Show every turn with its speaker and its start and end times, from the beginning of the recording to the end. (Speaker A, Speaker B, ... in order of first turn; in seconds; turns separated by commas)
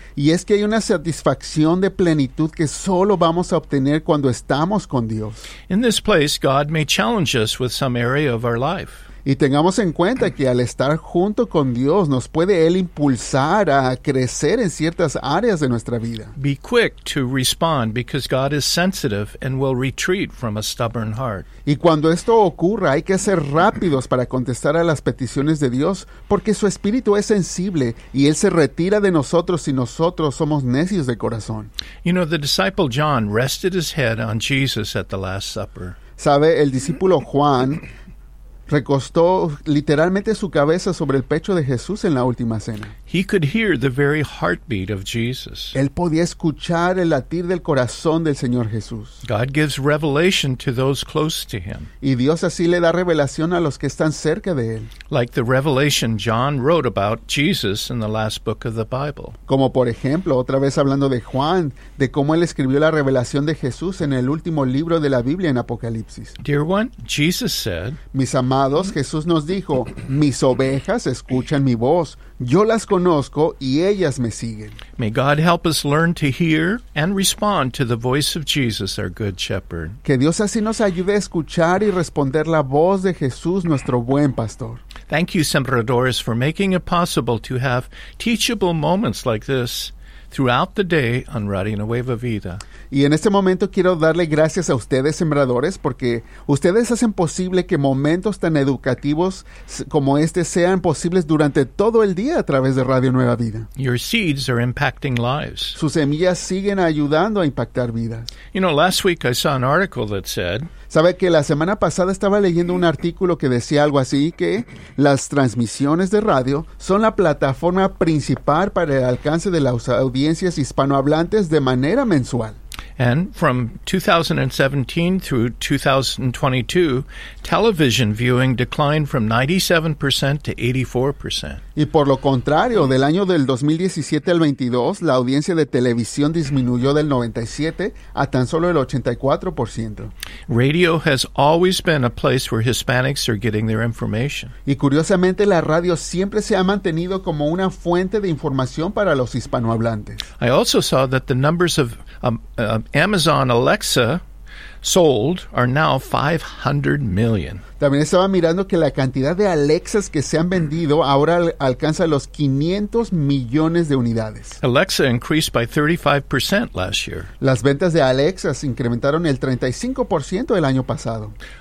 Speaker A: 0.2-5.5, Speaker B: 5.7-9.1, Speaker A: 9.2-16.3, Speaker B: 16.4-21.5, Speaker A: 21.7-31.7, Speaker B: 32.0-36.0, Speaker A: 36.2-37.8, Speaker A: 38.7-42.9, Speaker B: 43.1-45.8, Speaker A: 45.7-49.2, Speaker B: 49.2-51.9, Speaker A: 52.0-54.9, Speaker B: 55.1-59.4, Speaker A: 59.5-66.4, Speaker B: 66.4-68.0, Speaker A: 68.1-74.8, Speaker B: 75.0-80.0, Speaker A: 80.0-84.8, Speaker B: 85.1-92.6, Speaker A: 92.9-103.7, Speaker B: 103.8-105.8, Speaker A: 105.8-108.3, Speaker B: 108.5-110.7, Speaker A: 110.9-122.6, Speaker B: 123.0-131.6, Speaker A: 131.8-140.1, Speaker B: 140.5-144.5, Speaker A: 144.7-150.2, Speaker B: 150.4-154.2, Speaker B: 154.8-157.6, Speaker A: 157.8-164.6, Speaker B: 164.6-167.3, Speaker A: 167.4-171.3